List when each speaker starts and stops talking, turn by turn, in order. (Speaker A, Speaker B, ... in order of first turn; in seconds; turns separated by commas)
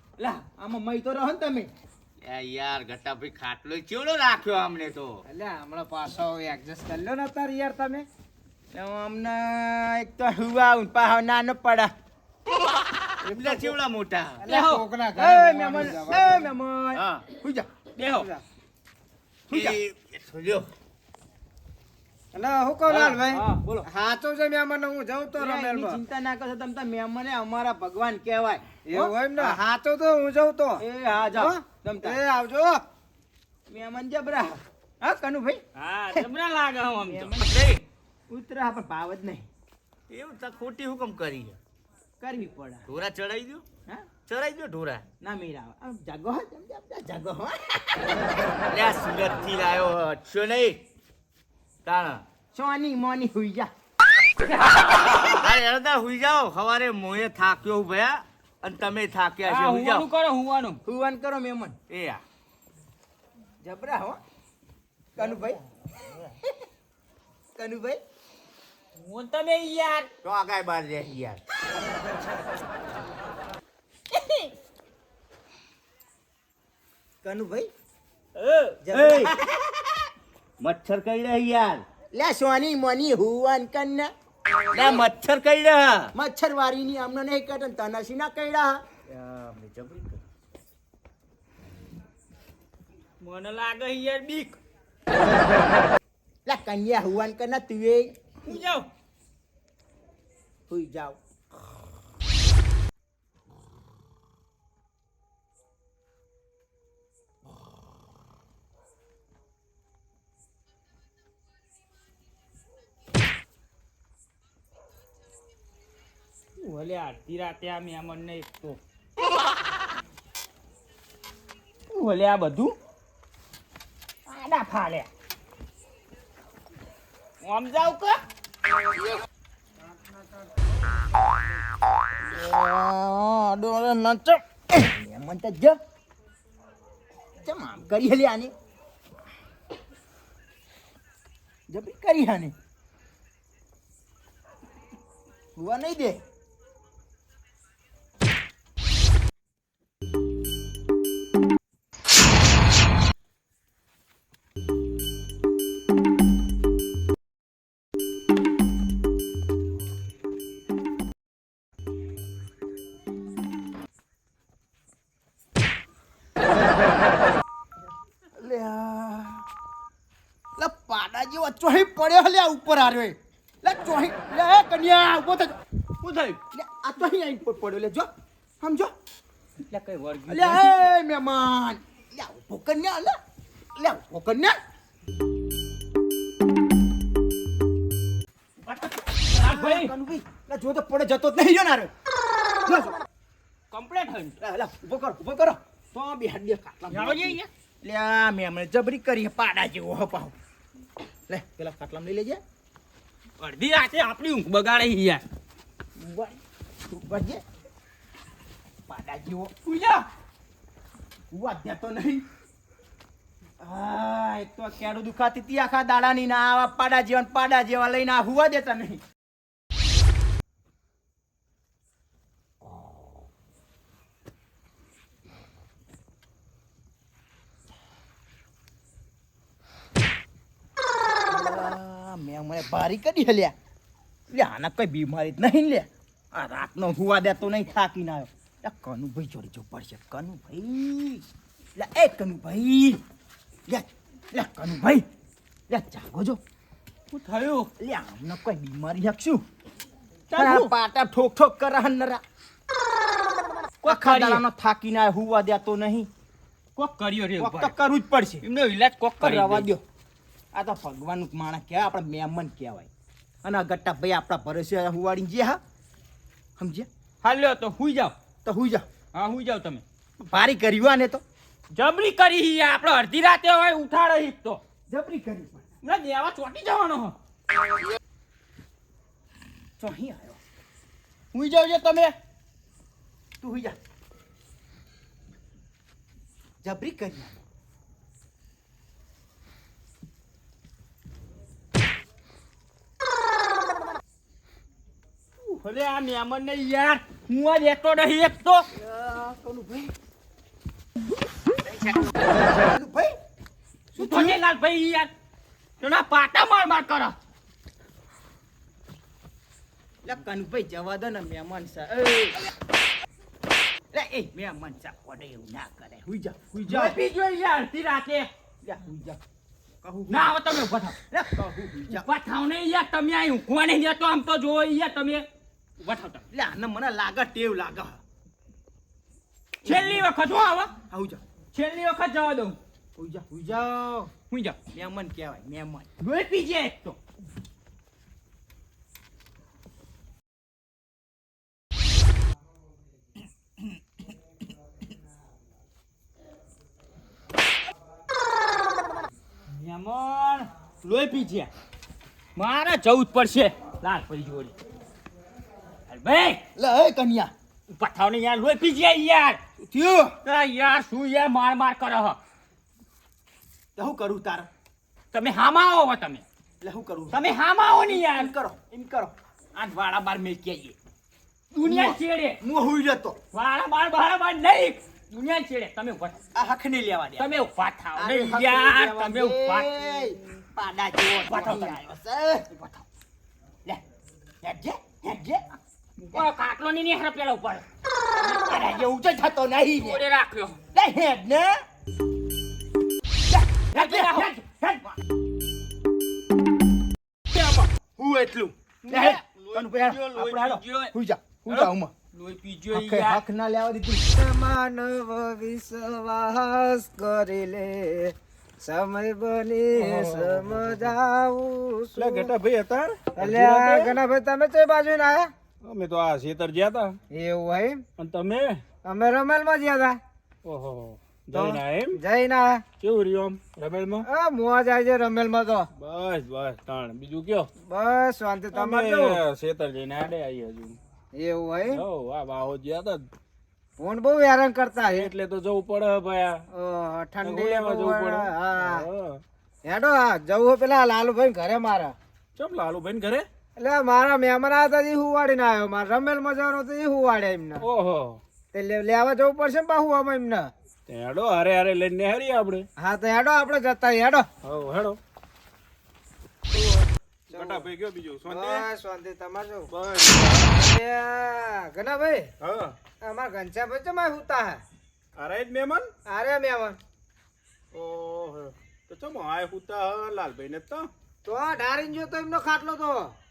Speaker A: 0.2-1.7, Speaker B: 2.2-5.2, Speaker C: 5.3-8.1, Speaker A: 8.7-11.9, Speaker B: 13.2-14.4, Speaker C: 13.2-13.7, Speaker C: 14.4-16.5, Speaker D: 14.5-14.8, Speaker A: 15.2-17.7, Speaker B: 16.9-17.2, Speaker D: 18.0-18.3, Speaker C: 18.1-18.4, Speaker A: 19.5-19.8, Speaker B: 19.5-20.7, Speaker C: 22.3-26.0, Speaker A: 22.9-23.9, Speaker A: 25.4-29.6, Speaker C: 28.9-30.8, Speaker A: 30.8-32.2, Speaker C: 31.3-32.8, Speaker A: 33.7-35.6, Speaker D: 35.8-37.3, Speaker A: 37.1-37.5, Speaker B: 37.3-37.8, Speaker A: 38.3-39.5, Speaker B: 40.1-41.6, Speaker A: 42.2-42.9, Speaker B: 42.9-43.6, Speaker B: 44.3-45.0, Speaker A: 45.2-48.2, Speaker B: 48.7-50.8, Speaker B: 51.9-52.2, Speaker A: 52.5-53.7, Speaker D: 54.7-55.4, Speaker B: 55.3-60.1, Speaker D: 59.5-60.8, Speaker A: 60.9-61.8, Speaker B: 61.9-62.2, Speaker A: 63.6-64.2, Speaker A: 65.2-65.6, Speaker A: 67.6-68.0, Speaker D: 69.0-70.1, Speaker B: 70.2-71.4, Speaker D: 74.1-74.5, Speaker A: 77.2-77.7, Speaker D: 78.3-78.8, Speaker A: 78.8-79.3, Speaker B: 78.9-79.3, Speaker B: 80.6-81.8, Speaker A: 82.1-84.1, Speaker B: 84.7-86.1, Speaker A: 86.1-88.8, Speaker B: 89.1-90.2, Speaker D: 93.2-94.6, Speaker A: 96.5-98.1, Speaker D: 98.4-98.9, Speaker A: 100.7-101.2, Speaker D: 116.6-118.8, Speaker A: 121.9-122.8, Speaker D: 124.3-125.1, Speaker D: 127.4-128.2, Speaker A: 132.3-135.8, Speaker A: 137.4-138.5, Speaker A: 141.7-142.5, Speaker A: 145.6-146.2, Speaker A: 168.4-169.4, Speaker A: 170.6-175.6, Speaker D: 176.0-176.4, Speaker A: 176.5-178.1, Speaker A: 178.6-178.9, Speaker D: 179.6-180.9, Speaker A: 180.3-183.2, Speaker A: 183.8-184.6, Speaker D: 188.6-189.9, Speaker A: 189.3-191.9, Speaker A: 192.7-193.0, Speaker D: 193.7-194.4, Speaker A: 194.4-200.3, Speaker D: 196.9-197.5, Speaker A: 201.3-202.4, Speaker D: 203.4-205.2, Speaker A: 206.0-207.4, Speaker A: 208.9-209.6, Speaker D: 209.6-210.1, Speaker A: 211.3-212.2, Speaker A: 213.6-219.0, Speaker A: 231.3-233.6, Speaker A: 234.3-241.2, Speaker A: 241.8-243.0, Speaker A: 243.7-245.1, Speaker A: 245.7-246.4, Speaker D: 247.1-247.7, Speaker A: 247.8-249.4, Speaker A: 250.3-252.2, Speaker D: 250.3-250.7, Speaker D: 253.8-254.4, Speaker A: 253.8-256.1, Speaker D: 256.8-257.8, Speaker A: 257.4-258.4, Speaker D: 258.4-259.7, Speaker A: 259.2-259.8, Speaker A: 260.5-262.9, Speaker A: 263.4-265.6, Speaker A: 266.6-266.9, Speaker D: 267.2-268.1, Speaker A: 268.4-268.9, Speaker D: 269.1-269.8, Speaker A: 270.2-271.2, Speaker D: 271.7-274.6, Speaker A: 274.9-275.7, Speaker D: 275.8-277.2, Speaker A: 279.8-280.4, Speaker D: 281.3-282.1, Speaker A: 283.4-283.8, Speaker A: 286.6-287.4, Speaker D: 295.4-298.7, Speaker A: 298.7-299.9, Speaker A: 302.2-303.1, Speaker A: 303.9-304.4, Speaker D: 303.9-305.1, Speaker D: 305.8-307.2, Speaker A: 310.0-312.4, Speaker A: 313.9-317.0, Speaker D: 316.7-318.3, Speaker A: 318.6-319.2, Speaker A: 319.8-320.3, Speaker D: 320.1-321.0, Speaker A: 321.1-322.1, Speaker D: 321.9-325.3, Speaker D: 325.8-326.2, Speaker A: 326.3-328.0, Speaker A: 329.6-330.1, Speaker D: 329.6-330.7, Speaker A: 330.9-331.2, Speaker D: 331.5-332.6, Speaker A: 333.0-336.0, Speaker D: 336.0-336.9, Speaker D: 349.5-350.5, Speaker A: 350.8-351.5, Speaker D: 352.4-354.5, Speaker D: 355.9-356.4, Speaker A: 356.6-357.3, Speaker D: 357.7-359.4, Speaker A: 359.6-360.2, Speaker D: 360.2-362.2, Speaker A: 363.8-364.5, Speaker D: 365.1-366.2, Speaker A: 366.6-370.8, Speaker D: 367.1-368.3, Speaker A: 371.5-373.2, Speaker D: 371.6-372.4, Speaker D: 373.3-376.2, Speaker A: 376.4-377.4, Speaker D: 377.2-380.0, Speaker A: 377.9-382.8, Speaker D: 381.2-381.8, Speaker A: 384.4-385.4, Speaker D: 386.0-387.6, Speaker A: 388.2-390.0, Speaker D: 388.3-388.6, Speaker D: 389.8-390.6, Speaker A: 390.7-391.6, Speaker A: 393.3-394.9, Speaker D: 393.7-394.4, Speaker E: 397.3-397.7, Speaker A: 398.0-401.9, Speaker D: 398.9-400.9, Speaker D: 401.5-403.2, Speaker A: 402.7-404.1, Speaker C: 404.1-412.3, Speaker E: 409.9-410.9, Speaker E: 412.0-414.0, Speaker C: 413.2-415.3, Speaker E: 415.6-417.0, Speaker C: 417.1-417.8, Speaker E: 418.0-418.6, Speaker C: 418.9-420.0, Speaker E: 420.4-422.0, Speaker C: 421.3-422.6, Speaker E: 422.8-424.1, Speaker C: 424.1-425.7, Speaker E: 425.8-427.5, Speaker C: 427.7-429.2, Speaker E: 428.5-430.8, Speaker C: 431.1-431.8, Speaker E: 431.7-433.1, Speaker C: 433.8-435.1, Speaker E: 434.9-436.5, Speaker C: 436.5-438.9, Speaker E: 437.2-439.2, Speaker C: 439.7-441.9, Speaker E: 442.4-443.3, Speaker C: 443.6-447.6, Speaker E: 447.6-448.2, Speaker C: 448.5-450.5, Speaker E: 450.9-452.6, Speaker C: 452.8-454.3, Speaker E: 454.4-455.0, Speaker E: 456.5-458.6, Speaker C: 457.3-457.7, Speaker C: 458.3-459.7, Speaker E: 459.7-460.5, Speaker C: 460.5-462.3, Speaker E: 462.4-462.8, Speaker C: 463.0-464.6, Speaker E: 465.2-465.9, Speaker C: 466.1-466.8, Speaker E: 467.7-470.9, Speaker C: 471.2-473.1